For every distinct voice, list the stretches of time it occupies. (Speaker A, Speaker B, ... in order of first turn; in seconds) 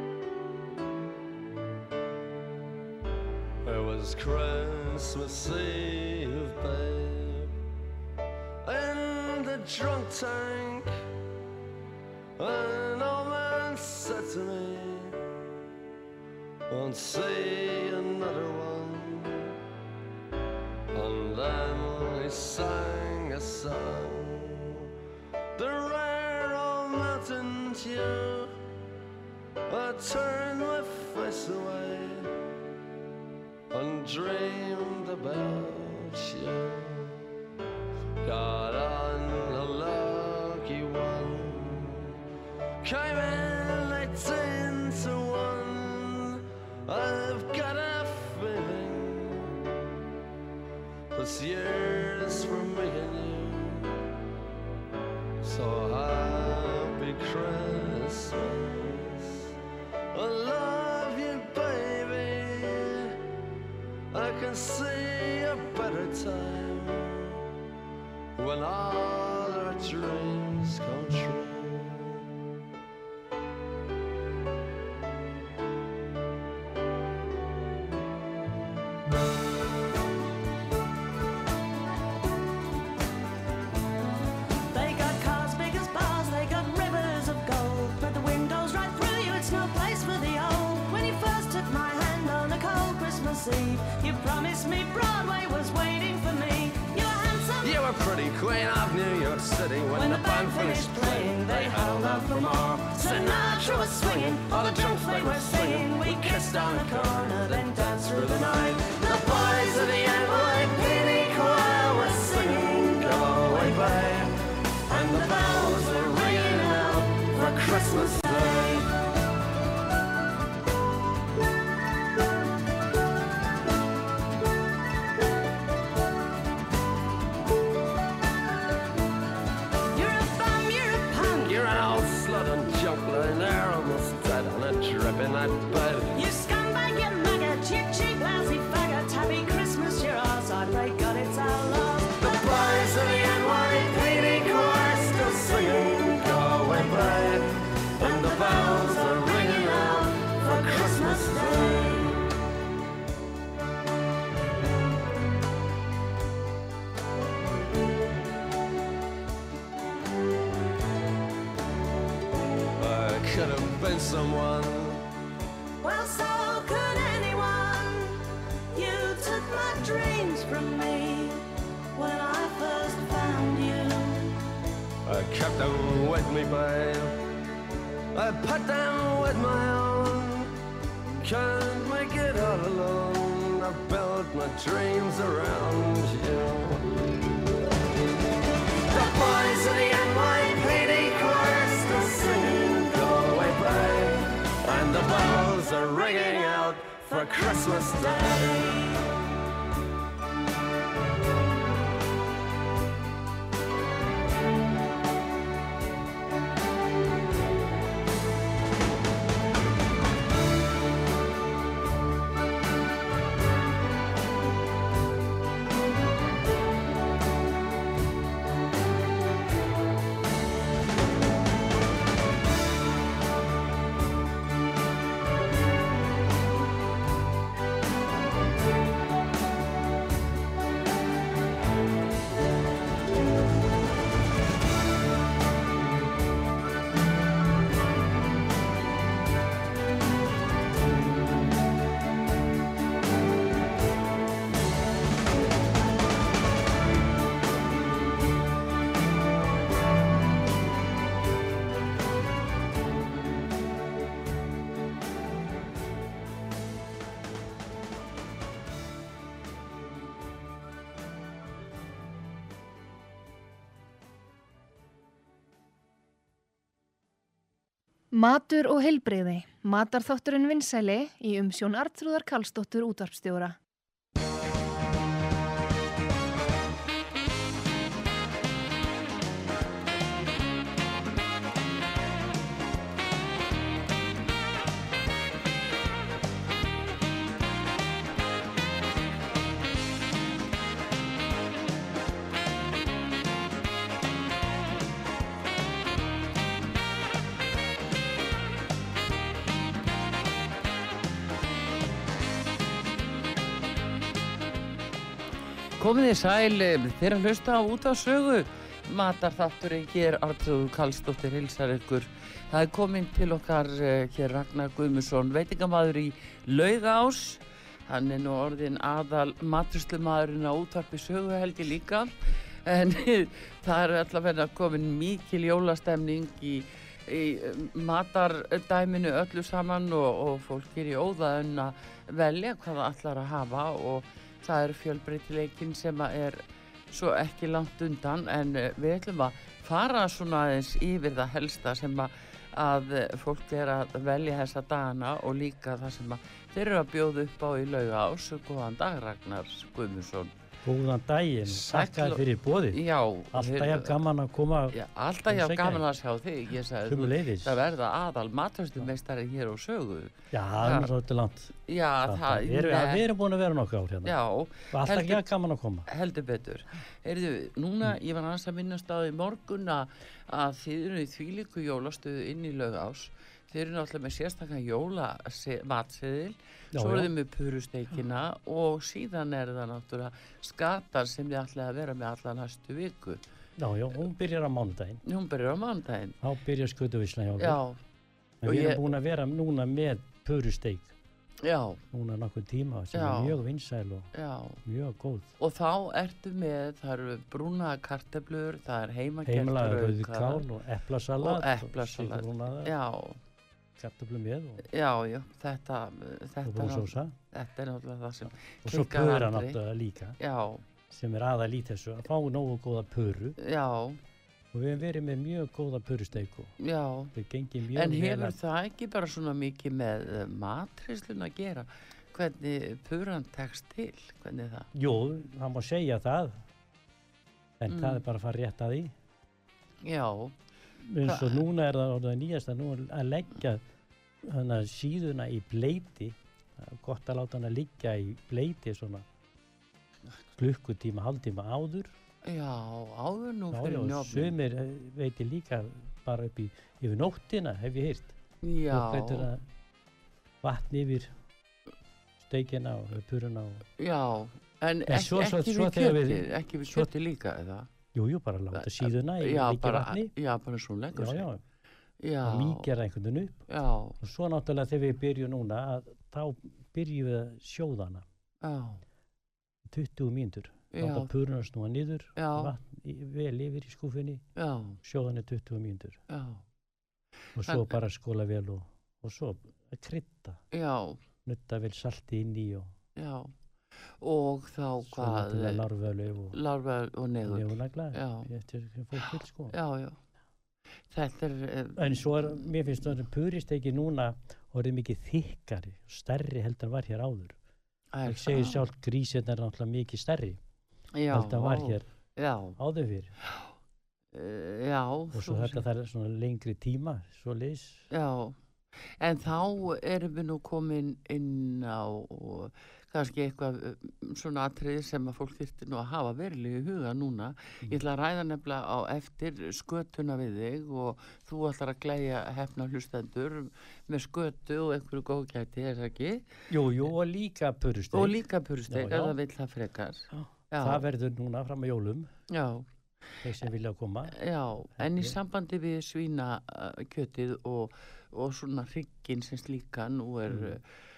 Speaker A: 3.6-7.5, 8.6-10.9, 12.4-15.2, 16.7-19.5, 20.9-24.9, 25.5-28.5, 29.7-32.3, 33.7-37.2, 38.2-42.1, 42.8-49.5, 51.1-53.9, 55.4-59.5, 60.1-63.2, 64.1-67.4, 68.3-72.2, 97.6-114.3, 114.9-118.9, 131.4-136.1, 142.2-152.2, 162.8-165.0, 175.0-177.2, 178.1-180.5, 181.2-186.8, 188.9-198.9
Speaker B: 84.7-97.8, 99.9-109.8, 110.4-114.0, 114.9-118.8, 129.9-131.6, 136.1-146.0, 148.0-151.9, 165.8-171.4, 171.9-174.3, 197.4-198.8
Speaker C: 268.1-273.6
Speaker D: 305.8-350.3, 351.4-354.0, 354.7-360.9, 361.6-363.0, 364.0-365.2, 365.9-383.2, 385.0-386.2, 387.4-387.8, 388.4-388.9, 391.4-391.8, 392.9-393.4, 394.1-394.6, 395.4-400.4, 401.2-403.2, 404.7-409.6, 410.2-410.6, 413.4-414.0, 416.6-417.1, 417.7-424.7, 427.7-428.0, 429.8-430.3, 431.0-431.4, 442.2-444.3, 448.4-449.3, 453.8-457.7, 458.5-461.3, 462.0-462.7, 463.5-464.0, 468.4-468.8, 470.7-471.1, 472.2-472.5, 474.4-474.8, 476.1-476.4, 477.4-477.8, 480.5-481.0, 482.9-483.3, 484.0-485.6, 486.3-488.3, 489.0-490.0, 490.9-492.6, 497.9-498.6, 500.9-502.6, 503.2-503.5, 504.1-505.6, 507.9-508.4, 509.0-526.2, 527.9-530.8, 532.3-532.7, 534.1-540.7
Speaker E: 350.6-355.9, 356.8-357.6, 360.3-361.5, 362.0-364.1, 364.7-365.9, 376.7-377.1, 383.6-385.0, 386.2-387.6, 388.4-390.9, 391.9-394.1, 394.6-395.3, 399.2-402.7, 403.8-404.6, 406.4-407.1, 408.6-410.2, 410.9-413.4, 414.5-416.5, 417.1-418.4, 424.7-426.4, 427.6-428.9, 430.8-433.6, 434.2-439.1, 440.3-441.9, 443.5-448.1, 448.7-449.4, 450.4-451.1, 452.2-453.6, 454.9-456.9, 457.9-460.1, 460.9-461.4, 462.2-463.4, 464.0-468.0, 469.6-474.2, 474.8-476.0, 477.4-480.4, 481.2-482.7, 484.8-486.4, 487.2-489.5, 491.8-497.4, 498.0-500.4, 501.1-501.8, 502.6-503.1, 505.1-507.9, 526.5-529.2, 530.1-532.1, 533.2-534.2, 534.8-535.2, 540.3-540.6